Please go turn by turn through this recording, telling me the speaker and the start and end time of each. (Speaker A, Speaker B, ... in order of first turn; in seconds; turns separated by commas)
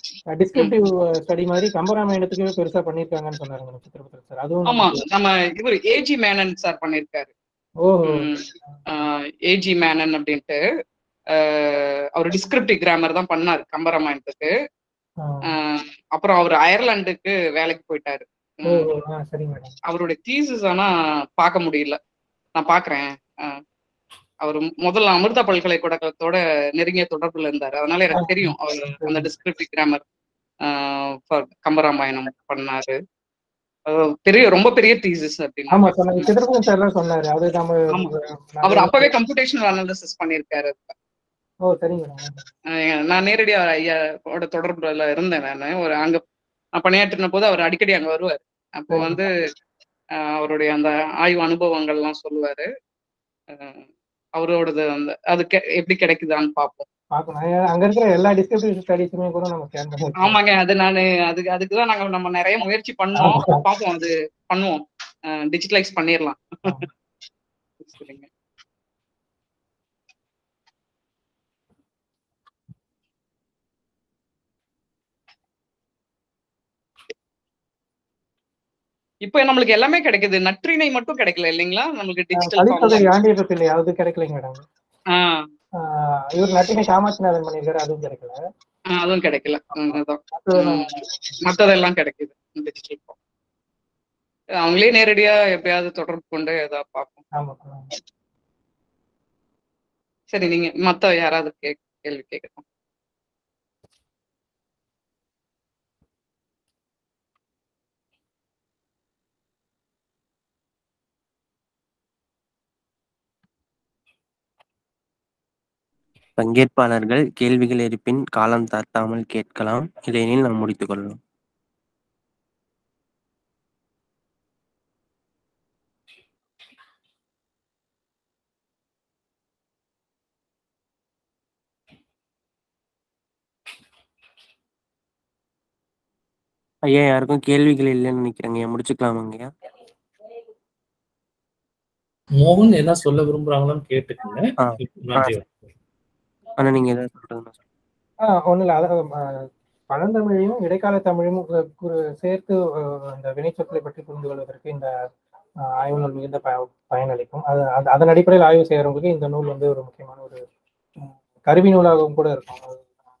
Speaker A: 0.3-5.0, Speaker B: 4.7-7.3, Speaker A: 7.8-8.8, Speaker B: 8.1-10.6, Speaker B: 11.3-14.5, Speaker A: 15.2-15.5, Speaker B: 15.5-18.9, Speaker A: 18.6-19.7, Speaker B: 19.9-22.0, Speaker B: 22.6-23.6, Speaker B: 24.4-30.0, Speaker A: 28.2-29.3, Speaker B: 30.6-33.0, Speaker B: 33.9-36.3, Speaker A: 35.7-39.1, Speaker B: 38.6-40.9, Speaker A: 41.6-42.4, Speaker B: 42.7-46.2, Speaker B: 46.8-49.3, Speaker A: 48.9-49.2, Speaker B: 50.2-52.7, Speaker B: 53.5-53.8, Speaker B: 54.4-56.9, Speaker A: 57.1-60.4, Speaker B: 60.2-66.8, Speaker A: 63.2-63.6, Speaker B: 67.8-68.3, Speaker B: 79.2-83.1, Speaker A: 82.3-84.6, Speaker B: 85.1-85.5, Speaker A: 85.8-88.4, Speaker B: 88.9-90.9, Speaker A: 89.7-90.9, Speaker B: 91.4-93.1, Speaker B: 94.6-97.2, Speaker A: 97.3-97.9, Speaker B: 100.3-102.6, Speaker C: 116.4-121.2, Speaker C: 136.9-139.5, Speaker D: 142.4-145.6, Speaker C: 144.6-145.3, Speaker C: 146.6-147.5, Speaker A: 148.3-154.9, Speaker A: 155.7-160.4, Speaker A: 161.0-162.8